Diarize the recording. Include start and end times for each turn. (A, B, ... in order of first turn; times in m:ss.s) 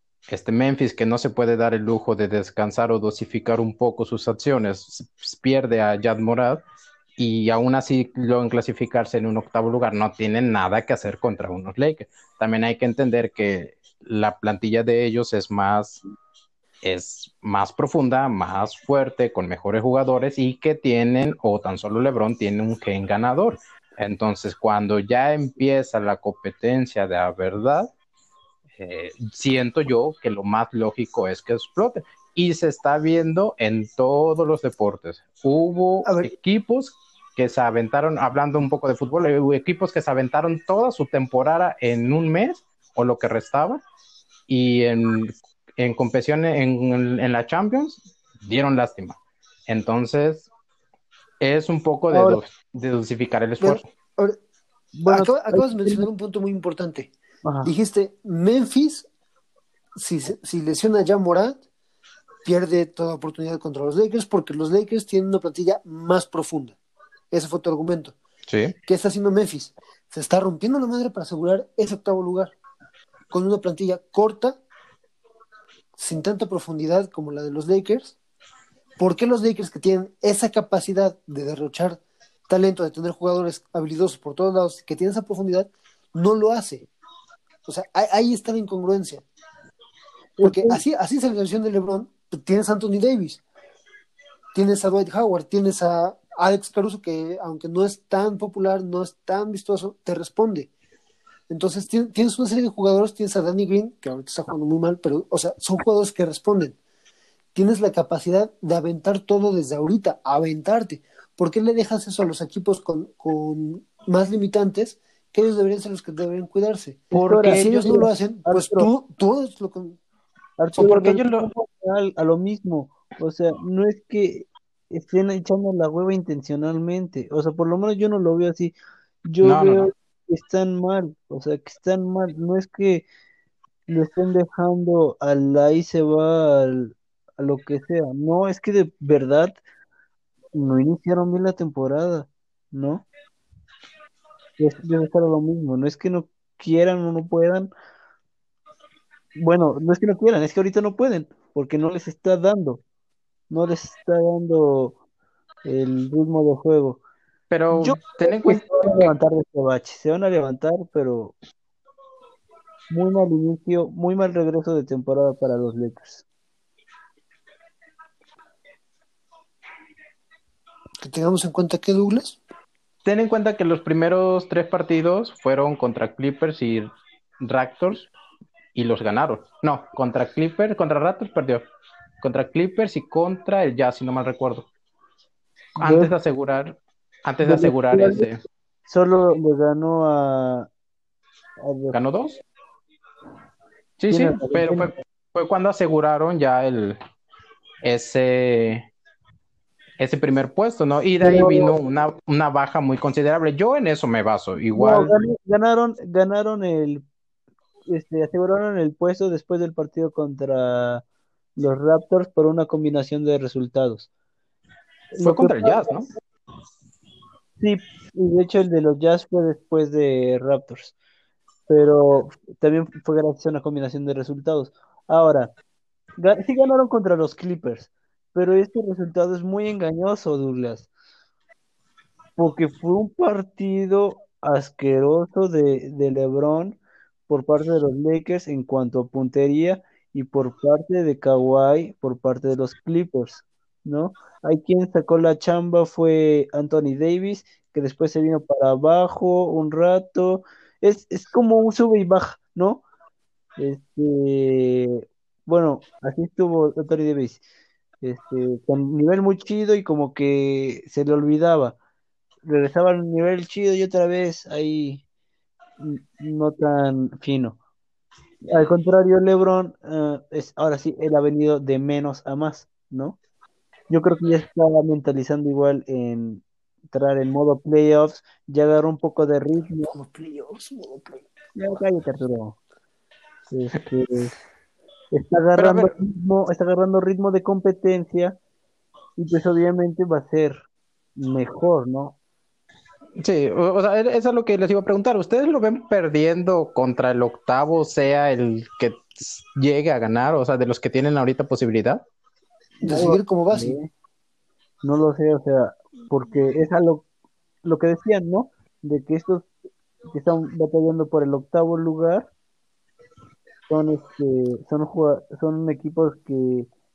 0:00.3-0:06.6 A
0:07.2-0:16.0 A
0:16.8-0:27.9 A
0:28.8-0:43.8 A
0:36.0-0:36.3 B
0:44.5-0:49.2 A
0:49.7-0:50.5 A
0:51.4-0:53.8 A
0:52.1-0:52.4 C
0:53.6-0:54.4 B
0:55.0-0:56.0 C
0:55.1-0:57.1 B
0:57.4-0:57.7 C
0:57.6-0:59.1 B
1:00.0-1:01.6 B
1:02.4-1:06.8 B
1:07.3-1:08.2 B
1:08.5-1:08.7 A
1:08.8-1:12.6 B
1:13.3-1:14.6 B
1:16.0-1:18.2 B
1:19.0-1:26.9 B
1:27.7-1:29.2 B
1:30.4-1:30.8 C
1:30.4-1:33.4 B
1:34.5-1:40.7 B
1:41.5-1:46.8 B
1:47.6-2:00.0 B
1:57.1-1:58.9 C
1:57.1-1:57.8 A
2:00.6-2:08.7 C
2:00.8-2:01.5 A
2:00.9-2:01.2 B
2:09.3-2:13.0 C
2:09.4-2:09.9 A
2:13.9-2:19.6 C
2:20.5-2:23.0 C
2:24.6-2:27.7 C
2:29.4-2:32.8 C
2:33.5-2:35.0 C
2:35.6-2:37.0 C
2:37.5-2:39.1 A
2:37.7-2:41.4 C
2:42.9-2:46.2 C
2:51.0-2:52.4 B
2:53.0-2:58.1 A
2:58.8-3:01.6 A
3:02.2-3:04.7 A
3:05.8-3:06.1 C
3:05.8-3:08.4 A
3:07.4-3:08.3 C
3:08.9-3:10.7 C
3:11.6-3:12.0 C
3:11.9-3:12.4 A
3:14.0-3:17.0 A
3:14.1-3:15.0 C
3:17.8-3:18.9 A
3:20.0-3:25.2 A
3:21.2-3:21.7 C
3:24.8-3:27.0 C
3:27.9-3:31.0 C
3:31.6-3:34.1 C
3:35.1-3:35.9 C
3:35.2-3:36.1 A
3:37.6-3:40.9 C
3:41.7-3:45.5 C
3:46.2-3:50.9 C
3:52.4-4:12.8 C
4:13.6-4:17.4 C
4:18.0-4:21.8 C
4:22.5-4:25.0 C
4:25.8-4:27.6 C
4:28.5-4:33.2 C
4:33.9-4:39.9 C
4:39.9-4:41.3 B
4:41.6-4:42.6 C
4:43.5-4:44.3 C
4:45.1-4:48.4 C
4:45.6-4:45.9 A
4:49.2-4:50.6 C
4:51.2-4:52.2 C
4:53.2-5:02.0 A
5:02.8-5:03.8 B
5:02.8-5:03.9 C
5:04.8-5:07.0 C
5:07.6-5:09.5 C
5:10.1-5:12.3 C
5:13.7-5:16.7 C